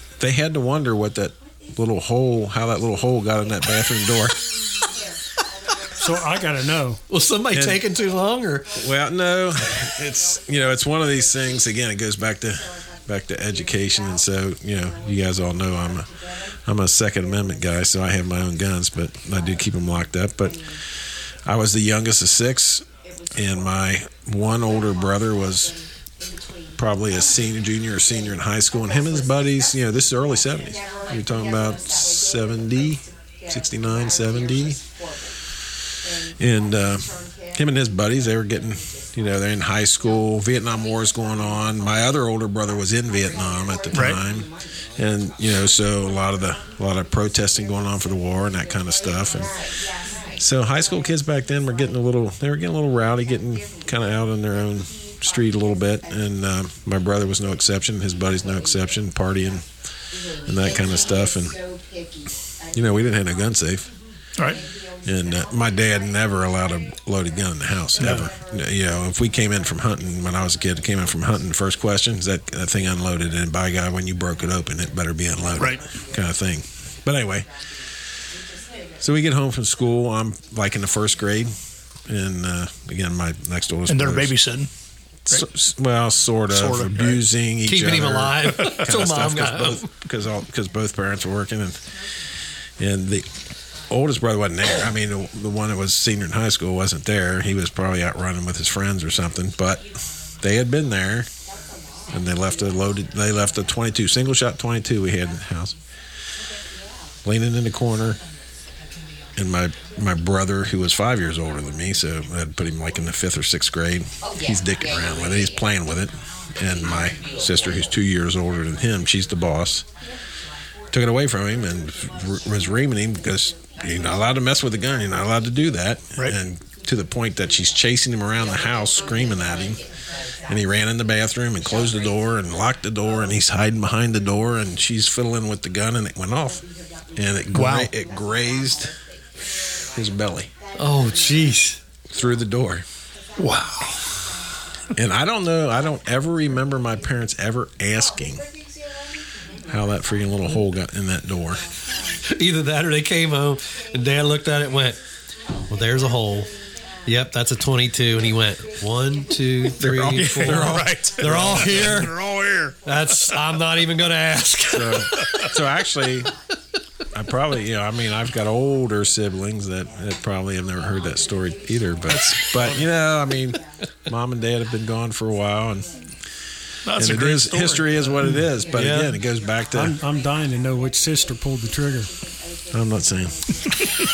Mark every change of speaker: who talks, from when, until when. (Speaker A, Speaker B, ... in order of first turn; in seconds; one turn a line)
Speaker A: 0.2-4.4
Speaker B: 6.0-7.0
Speaker C: 7.1-8.7
Speaker A: 7.5-7.8
Speaker A: 8.8-16.1
Speaker A: 16.6-20.6
Speaker A: 21.4-25.8
Speaker A: 26.8-34.8
Speaker A: 36.4-49.6
Speaker D: 43.9-44.2
Speaker A: 50.4-59.6
Speaker A: 60.5-61.6
Speaker A: 62.7-63.9
Speaker D: 64.4-64.6
Speaker A: 65.0-77.5
Speaker D: 68.0-68.3
Speaker A: 79.0-81.5
Speaker A: 82.1-84.3
Speaker D: 83.9-84.7
Speaker A: 85.3-91.8
Speaker D: 86.5-87.2
Speaker C: 87.7-89.9
Speaker A: 92.8-93.3
Speaker A: 93.9-101.3
Speaker A: 102.1-105.8
Speaker A: 107.2-108.2
Speaker A: 109.4-119.9
Speaker A: 120.9-129.8
Speaker A: 130.5-136.7
Speaker A: 137.2-138.9
Speaker D: 137.5-137.9
Speaker A: 139.9-140.5
Speaker C: 140.8-141.8
Speaker A: 142.1-142.8
Speaker D: 143.4-144.1
Speaker A: 144.9-148.4
Speaker A: 149.7-151.7
Speaker C: 152.3-155.0
Speaker C: 155.7-156.5
Speaker C: 157.1-162.2
Speaker A: 159.8-162.1
Speaker D: 160.0-163.4
Speaker C: 162.9-165.4
Speaker A: 164.7-166.3
Speaker A: 167.1-175.9
Speaker D: 172.3-172.7
Speaker D: 176.8-178.1
Speaker A: 177.0-180.0
Speaker C: 178.2-179.2
Speaker B: 179.7-182.1
Speaker A: 182.7-183.4